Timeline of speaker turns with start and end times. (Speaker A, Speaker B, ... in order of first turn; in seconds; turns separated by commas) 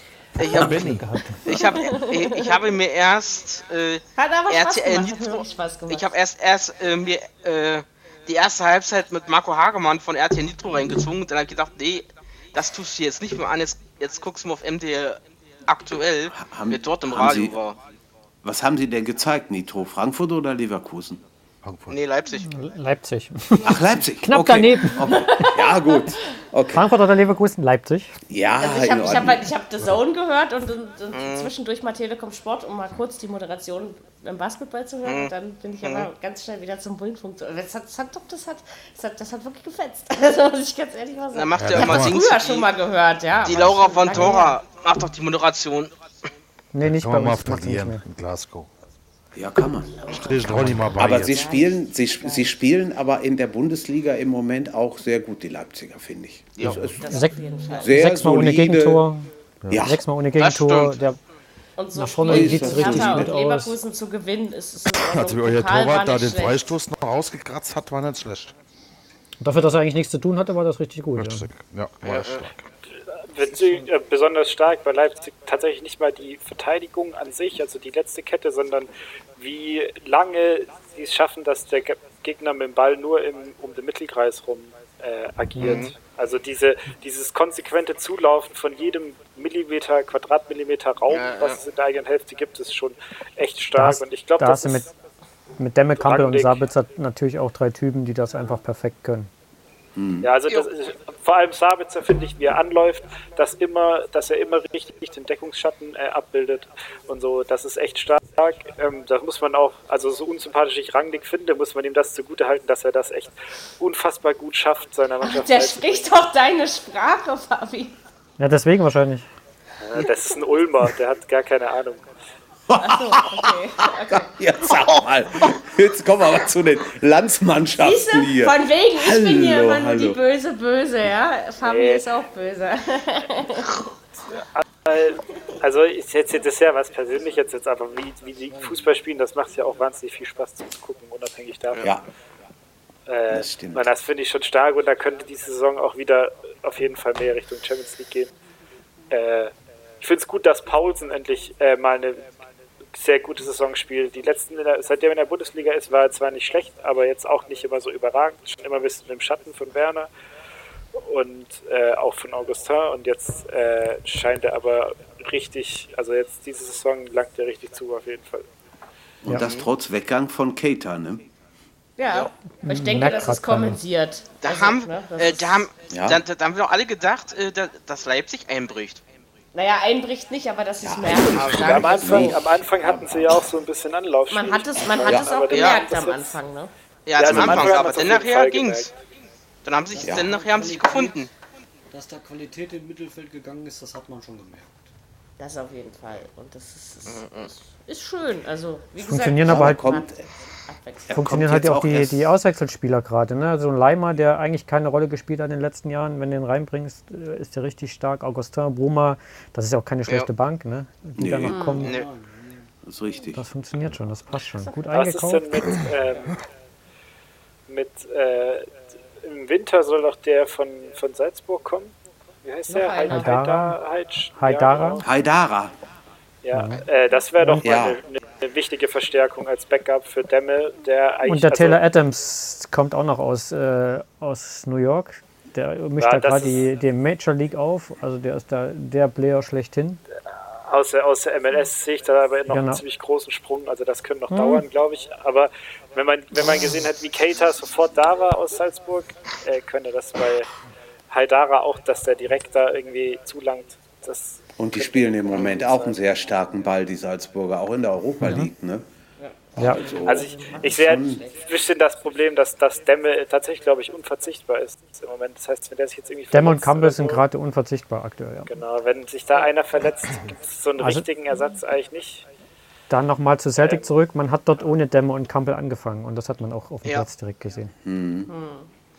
Speaker A: 0.4-1.0, Speaker B: 0.4-17.8, Speaker C: 0.7-1.4, Speaker D: 1.4-2.6, Speaker D: 4.2-6.1, Speaker E: 16.3-17.6, Speaker E: 18.4-21.2, Speaker A: 21.6-22.0, Speaker B: 21.9-22.5, Speaker C: 22.4-25.5, Speaker E: 23.6-26.9, Speaker D: 25.1-26.1, Speaker C: 26.7-28.1, Speaker E: 28.3-29.5, Speaker D: 28.6-44.6, Speaker B: 31.1-31.5, Speaker B: 35.0-35.3, Speaker B: 35.8-36.1, Speaker B: 41.3-42.7, Speaker A: 41.6-42.2, Speaker B: 43.4-45.9, Speaker C: 46.7-48.0, Speaker A: 46.8-48.7, Speaker E: 49.3-57.0, Speaker A: 50.1-51.5, Speaker D: 51.0-52.5, Speaker A: 56.6-56.9, Speaker D: 57.0-58.0, Speaker C: 57.0-61.2, Speaker E: 57.8-59.1, Speaker E: 59.7-60.0, Speaker B: 60.4-61.0, Speaker D: 61.8-66.6, Speaker C: 61.9-63.8, Speaker E: 62.3-63.3, Speaker A: 65.1-68.5, Speaker C: 69.4-71.5, Speaker A: 71.2-72.6, Speaker B: 72.0-72.4, Speaker F: 73.2-94.9, Speaker B: 85.6-85.9, Speaker B: 91.1-91.6, Speaker C: 93.7-94.8, Speaker C: 95.6-99.3, Speaker F: 96.0-96.7, Speaker E: 100.0-100.3, Speaker F: 100.2-116.1, Speaker D: 115.2-118.0, Speaker C: 118.4-119.3, Speaker F: 119.8-122.1, Speaker E: 122.7-130.2, Speaker D: 122.8-124.3, Speaker D: 127.8-133.8, Speaker F: 131.6-132.0, Speaker F: 134.3-141.9, Speaker G: 138.5-138.9, Speaker F: 143.1-148.3, Speaker E: 143.3-143.9, Speaker F: 149.1-152.2, Speaker F: 152.9-160.1, Speaker F: 160.9-168.5, Speaker E: 169.2-171.2, Speaker B: 169.3-169.7, Speaker D: 172.0-175.7, Speaker C: 172.6-173.8, Speaker B: 174.4-179.0, Speaker E: 175.9-176.2, Speaker D: 179.5-182.4, Speaker E: 180.8-183.4, Speaker F: 181.4-186.4, Speaker D: 184.3-186.7, Speaker B: 185.5-185.8, Speaker B: 187.1-188.9, Speaker F: 187.2-188.9, Speaker E: 187.2-187.9, Speaker B: 189.6-191.3, Speaker G: 189.9-191.3, Speaker E: 190.0-190.3, Speaker G: 191.9-194.9, Speaker D: 195.4-200.1, Speaker B: 197.1-197.5, Speaker C: 199.0-199.9, Speaker E: 199.4-200.2, Speaker D: 200.7-201.2, Speaker E: 201.1-202.3, Speaker C: 201.1-212.0, Speaker E: 211.2-211.9, Speaker D: 211.5-211.8, Speaker G: 211.8-212.7, Speaker B: 211.8-212.1, Speaker E: 212.8-213.4, Speaker C: 213.3-215.7, Speaker F: 214.9-216.3, Speaker F: 217.7-225.0, Speaker D: 222.7-223.4, Speaker C: 223.1-223.8, Speaker C: 224.3-225.0, Speaker E: 225.0-225.7, Speaker F: 226.4-231.8, Speaker C: 226.5-226.8, Speaker C: 227.4-227.7, Speaker E: 227.6-228.0, Speaker C: 231.2-240.0, Speaker F: 236.0-236.7, Speaker F: 240.7-250.5, Speaker C: 242.5-242.8, Speaker C: 244.3-244.6, Speaker F: 251.1-256.0, Speaker E: 254.6-258.9, Speaker D: 259.2-260.7, Speaker E: 259.5-261.2, Speaker C: 259.6-259.9, Speaker F: 260.0-267.2, Speaker C: 266.3-268.5, Speaker F: 268.5-272.3, Speaker C: 270.8-271.1, Speaker C: 272.9-277.7, Speaker F: 273.6-273.9, Speaker E: 277.8-278.3, Speaker D: 278.3-278.7